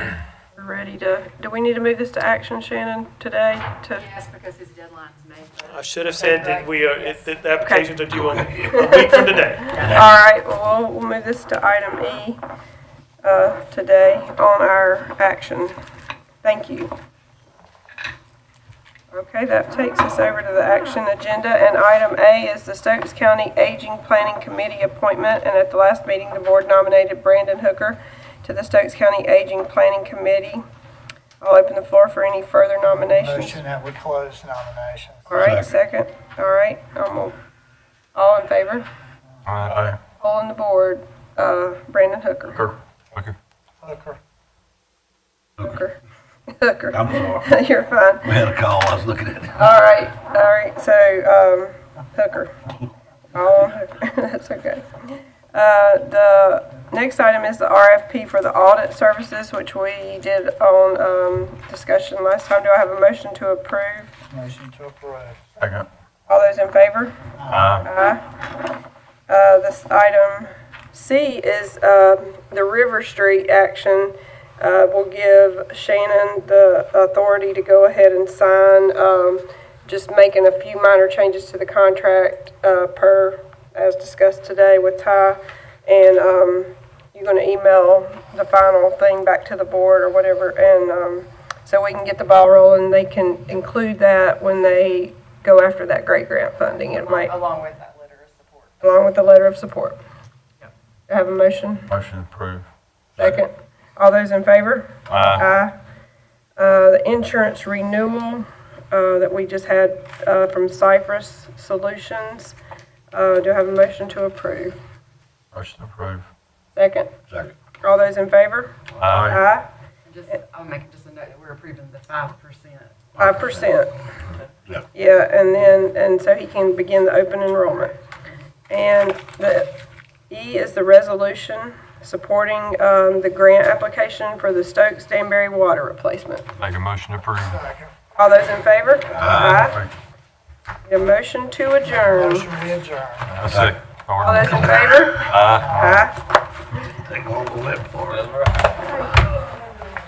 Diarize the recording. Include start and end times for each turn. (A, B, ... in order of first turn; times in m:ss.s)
0:00.5-0:04.0 A
0:03.9-0:07.3 B
0:05.6-0:09.8 C
0:07.6-0:07.9 A
0:08.1-0:08.7 D
0:08.6-0:12.4 A
0:09.7-0:10.1 D
0:13.2-0:15.8 A
0:16.4-0:16.9 A
0:19.1-0:30.6 A
0:31.4-0:33.6 A
0:32.9-0:35.3 E
0:35.3-0:37.4 A
0:35.4-0:35.7 D
0:38.1-0:38.8 A
0:39.4-0:40.0 F
0:40.1-0:42.7 A
0:42.5-0:43.4 F
0:43.8-0:44.2 E
0:45.6-0:46.0 A
0:46.5-0:48.4 A
0:46.9-0:47.5 D
0:48.2-0:49.6 D
0:49.5-0:52.6 A
0:53.3-1:04.1 A
1:04.3-1:05.5 E
1:05.6-1:05.9 F
1:06.3-1:08.2 A
1:07.4-1:07.7 E
1:07.5-1:07.9 F
1:09.3-1:37.3 A
1:36.9-1:38.8 B
1:38.8-1:40.0 A
1:41.1-1:41.9 A
1:41.9-1:42.7 F
1:43.2-1:45.7 A
1:45.1-1:45.4 F
1:46.6-1:52.6 A
1:53.1-1:54.8 A
1:55.5-1:56.3 F
1:56.8-1:57.1 A
1:57.8-1:59.7 A
1:59.0-1:59.4 F
2:00.0-2:03.8 B
2:03.2-2:03.9 A
2:04.9-2:08.0 A
2:08.7-2:09.8 A
2:10.3-2:16.4 A
2:16.6-2:17.6 F
2:17.4-2:17.9 E
2:18.2-2:19.8 A
2:19.1-2:19.7 D
2:19.6-2:19.9 F
2:20.8-2:22.5 A
2:21.9-2:23.4 E
2:23.3-2:26.0 F
2:23.5-2:23.8 D
2:24.2-2:26.2 A
2:25.6-2:26.0 E
2:26.9-2:28.4 D